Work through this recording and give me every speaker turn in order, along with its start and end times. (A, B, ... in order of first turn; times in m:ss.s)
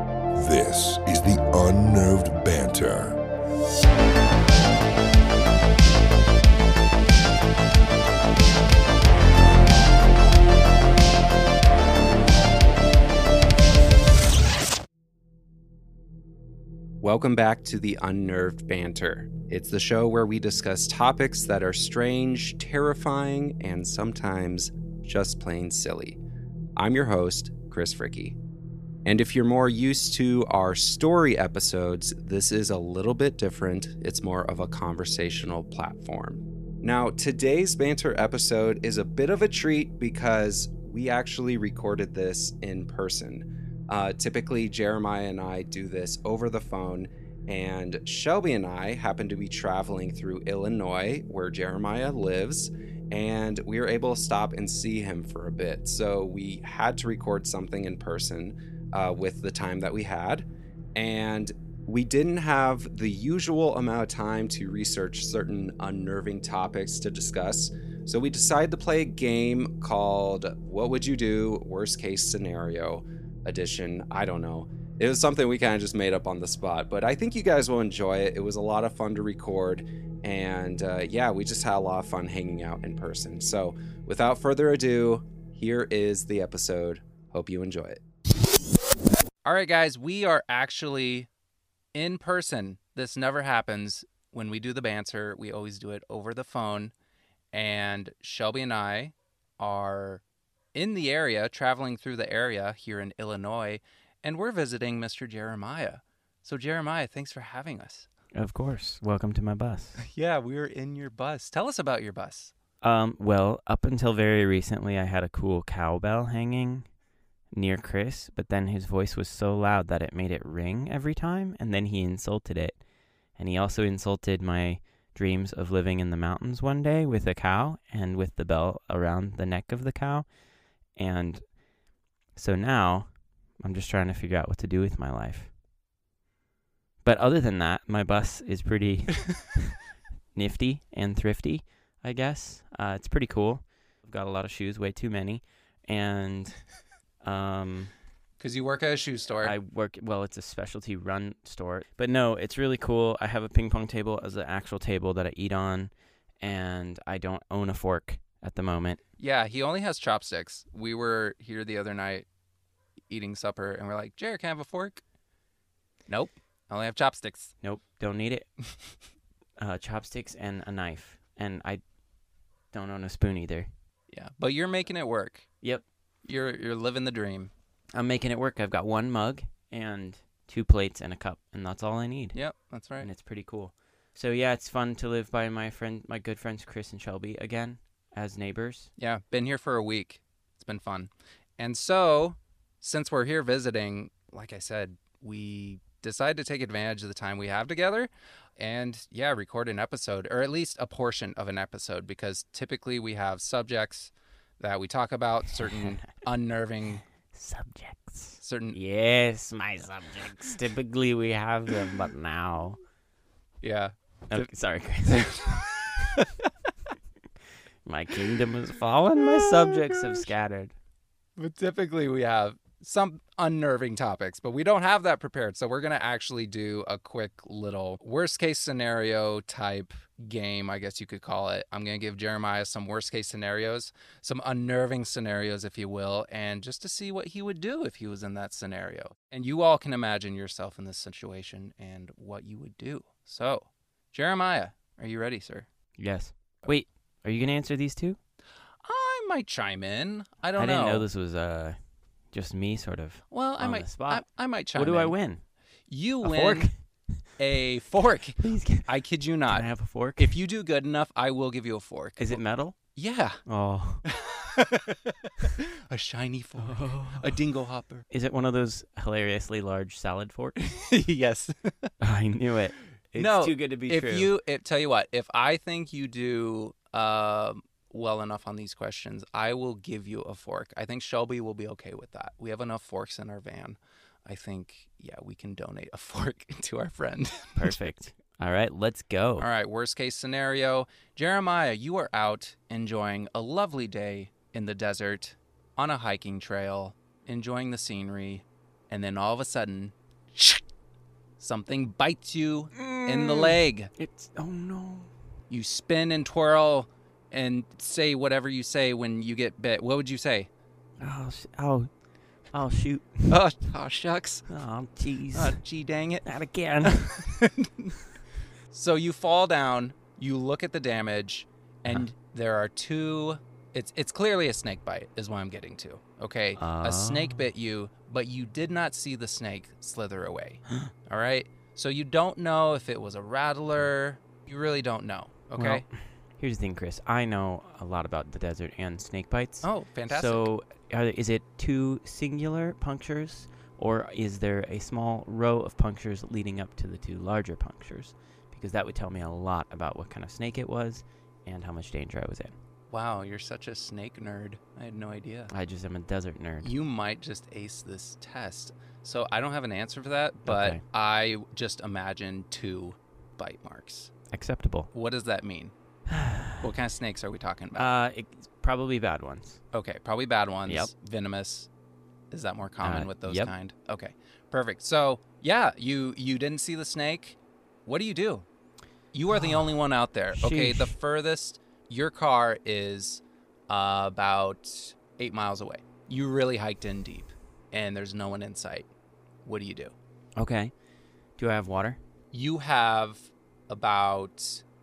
0:00.3-0:03.2 A
0:17.0-0:26.2 B
0:26.8-0:28.4 B
0:29.0-1:28.0 B
1:29.4-1:31.3 C
1:31.9-1:36.9 C
1:37.5-1:40.2 C
1:40.7-1:48.1 C
1:48.3-1:50.0 D
1:50.0-1:52.5 C
1:52.8-1:56.8 D
1:57.5-2:02.8 D
2:03.4-2:10.3 D
2:10.9-2:11.5 D
2:12.3-2:15.5 D
2:17.0-2:19.7 D
2:20.3-2:26.6 D
2:27.2-2:27.9 D
2:28.4-2:29.6 C
2:29.4-2:39.0 D
2:39.2-2:42.2 C
2:43.1-2:45.0 C
2:46.1-2:47.5 C
2:47.6-2:48.5 D
2:49.6-2:51.8 D
2:52.7-2:53.7 D
2:54.1-2:55.5 C
2:56.2-2:57.5 C
2:57.9-3:02.4 D
3:02.3-3:03.1 C
3:03.0-3:08.9 D
3:09.0-3:27.0 C
3:25.6-3:26.0 D
3:27.3-3:32.8 D
3:28.4-3:28.8 C
3:33.6-3:34.5 C
3:34.3-3:36.0 D
3:35.0-3:36.4 C
3:37.8-3:40.7 D
3:39.2-3:40.3 C
3:41.4-4:05.6 C
4:06.0-4:08.2 D
4:08.8-4:11.0 C
4:10.6-4:11.8 D
4:12.3-4:14.2 D
4:13.3-4:15.1 C
4:14.7-4:15.4 D
4:15.9-4:16.7 C
4:16.2-4:16.7 D
4:17.4-4:19.7 C
4:18.4-4:18.9 D
4:19.5-4:20.4 D
4:20.2-4:22.4 C
4:22.2-4:22.8 D
4:22.9-4:23.4 C
4:23.4-4:24.0 D
4:24.0-4:28.0 C
4:26.6-4:27.4 D
4:28.1-4:30.6 D
4:30.6-4:31.9 C
4:32.0-4:34.3 D
4:33.2-4:47.9 C
4:47.6-4:49.4 D
4:49.4-5:00.6 C
5:01.4-5:03.9 C
5:02.7-5:05.1 D
5:05.5-5:10.5 C
5:11.0-5:11.9 D
5:12.5-5:13.4 D
5:13.3-5:14.5 C
5:14.5-5:15.6 D
5:15.3-5:16.2 C
5:16.2-5:17.2 D
5:16.8-5:18.0 C
5:18.7-5:35.8 C
5:26.6-5:27.4 D
5:35.6-5:52.5 D
5:39.6-5:40.5 C
5:52.9-5:55.5 C
5:55.5-5:56.7 D
5:56.6-6:04.1 C
6:00.4-6:00.8 D
6:04.3-6:04.9 D
6:04.9-6:05.7 C
6:06.1-6:06.7 D
6:06.6-6:07.9 C
6:07.8-6:09.6 D
6:09.7-6:11.7 C
6:12.3-6:18.4 C
6:12.8-6:13.5 D
6:19.1-6:28.9 C
6:19.3-6:19.6 D
6:20.4-6:20.9 D
6:29.4-6:29.9 C
6:30.4-6:30.7 D
6:31.4-6:32.0 D
6:32.3-6:34.6 C